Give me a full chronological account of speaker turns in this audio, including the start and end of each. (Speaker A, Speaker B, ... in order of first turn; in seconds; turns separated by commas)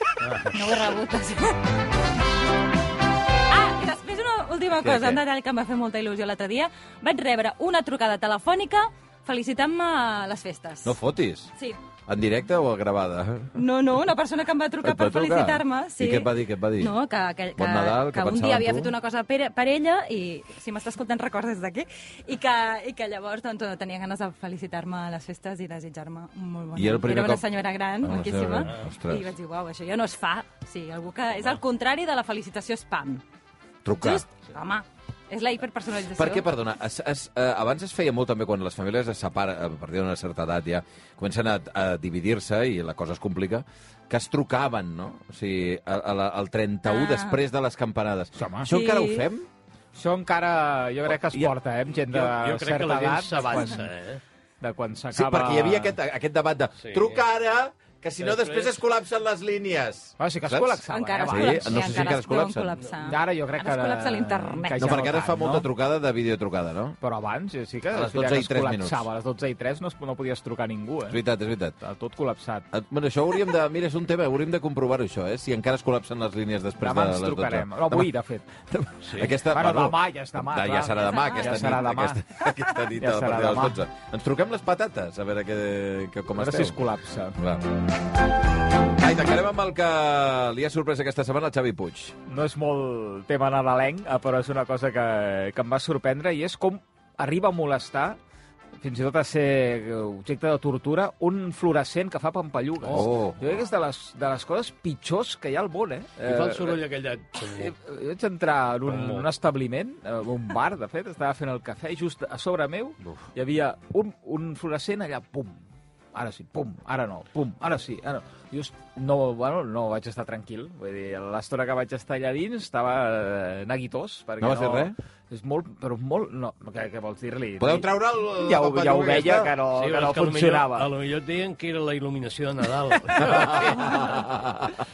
Speaker A: 0.2-0.6, Speaker B: 0.5-1.6, Speaker B: 3.5-11.0, Speaker C: 4.8-5.2, Speaker C: 10.8-11.5, Speaker C: 12.1-13.5, Speaker B: 13.5-33.2, Speaker C: 14.8-16.9, Speaker C: 17.6-18.9, Speaker C: 26.7-27.4, Speaker C: 28.0-29.3, Speaker A: 28.5-28.9, Speaker C: 33.8-34.2, Speaker B: 34.0-36.5, Speaker C: 36.1-49.5, Speaker B: 46.9-47.4, Speaker D: 48.3-48.7, Speaker B: 48.7-49.3, Speaker D: 49.9-53.9, Speaker A: 52.1-54.2, Speaker D: 54.6-56.0, Speaker C: 55.1-62.8, Speaker A: 56.8-57.2, Speaker A: 58.2-58.8, Speaker D: 60.2-62.1, Speaker B: 60.9-65.0, Speaker D: 63.0-65.7, Speaker C: 64.8-67.0, Speaker D: 67.0-71.2, Speaker C: 67.9-69.0, Speaker C: 71.1-71.7, Speaker D: 71.8-72.7, Speaker C: 72.7-78.1, Speaker D: 76.8-82.4, Speaker A: 79.0-79.3, Speaker C: 79.2-86.8, Speaker B: 80.9-81.8, Speaker D: 83.0-83.8, Speaker D: 86.3-87.4, Speaker C: 87.4-87.6, Speaker C: 89.0-92.1, Speaker D: 92.3-98.2, Speaker D: 98.8-106.8, Speaker C: 102.9-103.4, Speaker A: 106.2-107.7, Speaker D: 107.5-115.6, Speaker A: 108.8-109.3, Speaker D: 116.1-130.9, Speaker C: 124.4-124.9, Speaker C: 127.6-129.5, Speaker A: 129.7-134.2, Speaker C: 133.2-134.7